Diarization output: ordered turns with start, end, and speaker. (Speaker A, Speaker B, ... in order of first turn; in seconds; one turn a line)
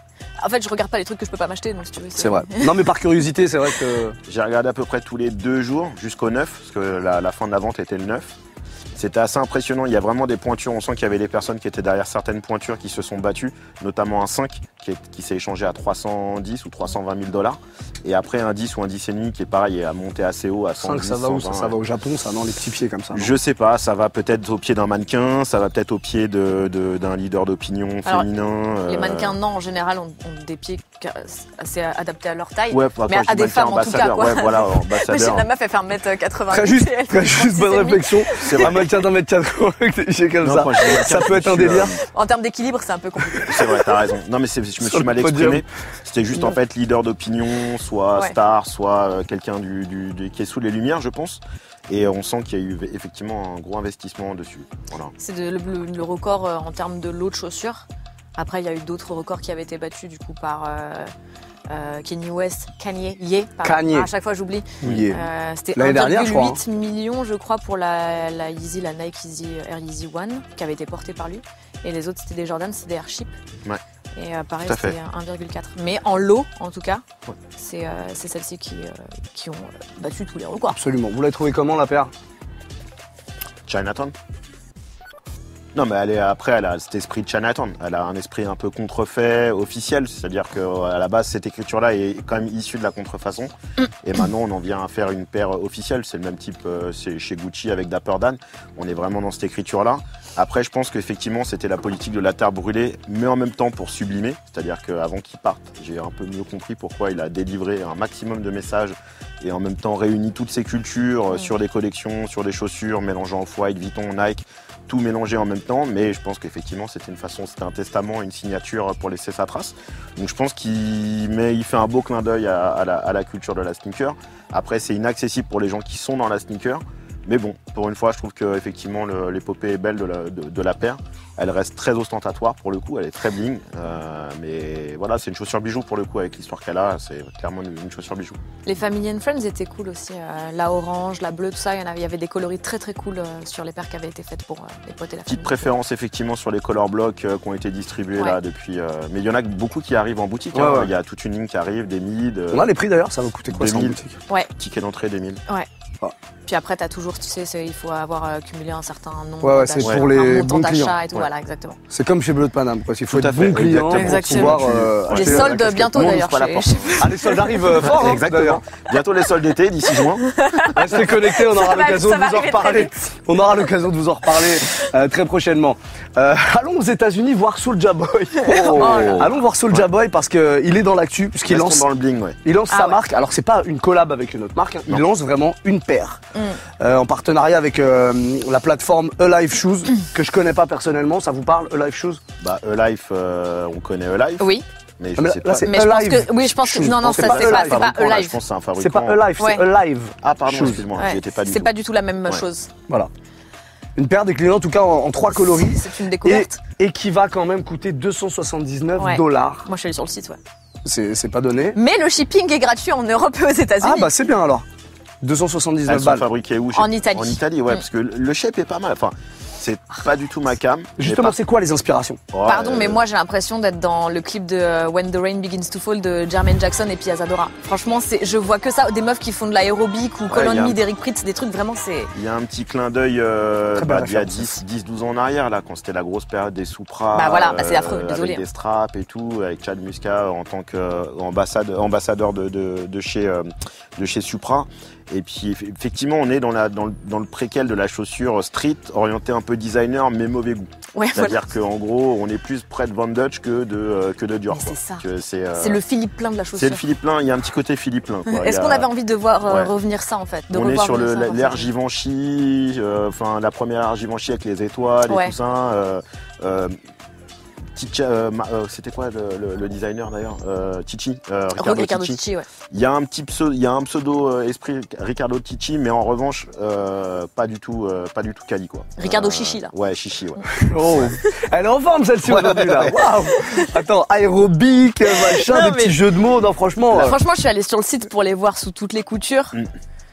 Speaker A: 0.4-2.7
Speaker B: 2.2-4.2
Speaker C: 4.3-8.3
Speaker C: 8.9-21.8
Speaker B: 20.8-23.3
Speaker C: 23.1-29.4
Speaker A: 28.9-38.7
Speaker C: 32.7-35.5
Speaker B: 36.5-41.9
Speaker C: 38.4-38.8
Speaker C: 40.4-42.0
Speaker A: 42.0-43.8
Speaker C: 43.5-55.1
Speaker B: 44.8-45.6
Speaker A: 55.2-57.8
Speaker A: 58.4-61.1
Speaker A: 61.7-73.3
Speaker B: 63.6-64.1
Speaker B: 64.8-65.2
Speaker B: 65.8-66.6
Speaker A: 74.2-77.0
Speaker C: 74.6-75.0
Speaker A: 77.5-80.7
Speaker B: 80.6-82.1
Speaker C: 83.7-84.1
Speaker C: 85.7-138.4
Speaker A: 138.6-145.7
Speaker C: 145.3-152.7
Speaker B: 150.5-150.9
Speaker B: 152.5-154.2
Speaker C: 153.5-154.0
Speaker C: 154.5-155.4
Speaker A: 156.4-161.8
Speaker B: 159.4-161.0
Speaker B: 161.9-166.0
Speaker C: 163.1-167.1
Speaker A: 163.9-167.8
Speaker B: 167.0-168.6
Speaker C: 167.7-170.2
Speaker A: 170.2-172.9
Speaker B: 170.7-181.8
Speaker A: 178.4-179.3
Speaker C: 178.6-179.9
Speaker C: 181.5-182.4
Speaker B: 182.4-186.2
Speaker A: 182.7-183.0
Speaker B: 186.8-192.2
Speaker C: 192.4-194.5
Speaker A: 194.4-194.6
Speaker C: 195.0-195.8
Speaker B: 195.2-197.9
Speaker A: 195.6-198.4
Speaker C: 196.9-199.2
Speaker B: 198.8-200.8
Speaker A: 199.4-199.6
Speaker C: 200.2-201.7
Speaker A: 200.9-202.7
Speaker B: 203.9-209.7
Speaker A: 205.4-206.6
Speaker A: 209.0-210.4
Speaker B: 210.8-211.8
Speaker A: 211.7-214.1
Speaker B: 213.8-214.6
Speaker B: 215.2-216.2
Speaker C: 215.9-221.3
Speaker A: 216.7-217.8
Speaker B: 221.0-222.2
Speaker C: 222.3-223.0
Speaker A: 222.5-232.1
Speaker C: 230.3-230.8
Speaker C: 232.1-255.8
Speaker B: 233.8-234.6
Speaker A: 237.1-238.4
Speaker A: 250.9-251.4
Speaker A: 254.5-256.8
Speaker C: 256.6-258.9
Speaker A: 258.2-261.7
Speaker C: 259.4-259.7
Speaker C: 260.5-266.7
Speaker A: 265.1-265.3
Speaker C: 267.8-272.2
Speaker A: 271.6-272.5
Speaker C: 272.7-281.1
Speaker A: 279.0-279.7
Speaker B: 280.5-287.2
Speaker C: 282.3-283.0
Speaker A: 283.3-283.7
Speaker A: 285.1-286.0
Speaker A: 286.9-289.6